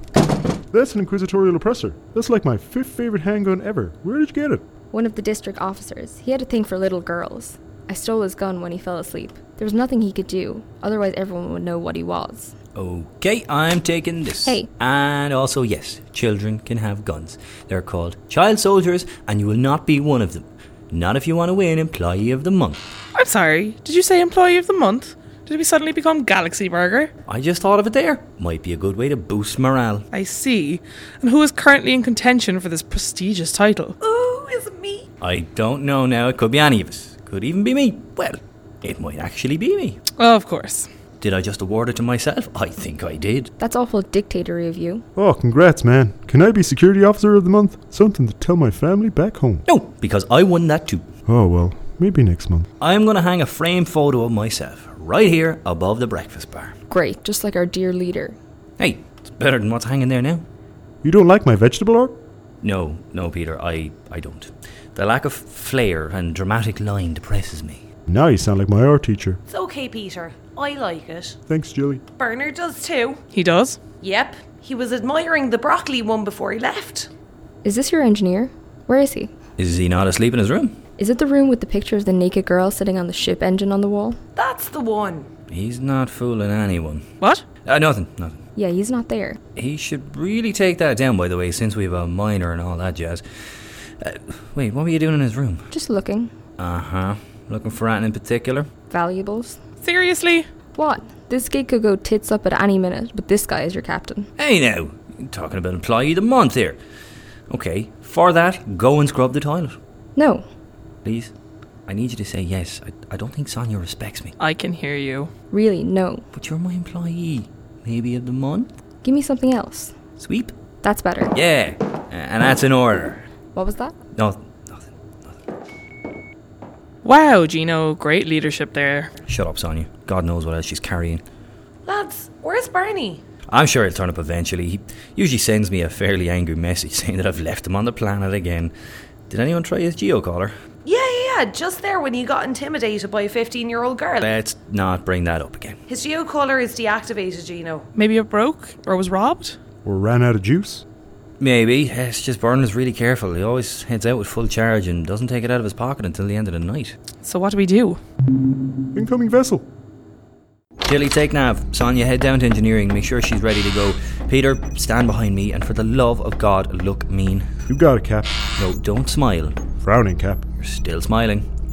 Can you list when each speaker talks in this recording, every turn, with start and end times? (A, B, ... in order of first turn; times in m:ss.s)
0:00.7-0:04.6 A
0:04.9-0:12.5 B
0:12.7-0:22.8 C
0:23.1-0:27.1 D
0:27.3-0:30.0 C
0:30.1-0:33.9 D
0:34.0-0:35.1 E
0:35.2-0:40.0 C
0:40.2-0:40.9 D
0:41.2-0:43.5 C
0:43.6-0:45.0 B
0:45.2-0:49.6 A
0:49.6-0:51.0 C
0:51.3-0:52.7 A
0:52.8-0:56.7 C
0:56.9-0:58.4 B
0:58.8-1:00.4 C
1:01.0-1:02.2 A
1:02.6-1:07.8 C
1:08.1-1:09.4 A
1:09.5-1:11.4 E
1:11.5-1:12.0 A
1:12.2-1:13.2 E
1:13.3-1:13.8 D
1:14.0-1:17.1 E
1:17.6-1:19.3 B
1:19.6-1:20.8 C
1:21.0-1:24.2 B
1:24.4-1:25.3 E
1:25.5-1:27.1 C
1:27.2-1:27.4 D
1:27.6-1:28.4 C
1:28.6-1:29.4 B
1:29.5-1:33.2 C
1:34.0-1:35.7 C
1:35.7-1:36.3 B
1:36.6-1:38.7 C
1:38.9-1:39.6 B
1:39.8-1:40.5 D
1:40.8-1:44.3 B
1:44.4-1:46.8 C
1:47.5-1:49.8 C
1:50.2-1:50.4 B
1:51.0-1:51.3 C
1:51.9-1:54.4 C
1:54.4-1:55.3 D
1:55.5-1:56.2 B
1:56.3-1:58.7 C
1:59.0-1:59.9 B
2:00.2-2:00.5 C
2:00.8-2:01.3 B
2:01.3-2:03.2 C
2:03.5-2:03.9 B
2:04.1-2:05.4 C
2:07.0-2:09.1 D
2:09.2-2:11.2 C
2:11.8-2:13.2 E
2:13.5-2:18.7 C
2:19.3-2:20.5 C
2:20.8-2:24.3 E
2:24.2-2:25.8 C
2:25.9-2:27.9 E
2:27.9-2:29.6 D
2:29.8-2:30.8 A
2:31.4-2:37.0 C
2:37.2-2:38.0 D
2:38.9-2:39.6 A
2:40.8-2:47.5 C
2:47.7-2:48.5 A
2:48.6-2:49.6 C
2:49.8-2:50.4 A
2:50.6-2:51.5 C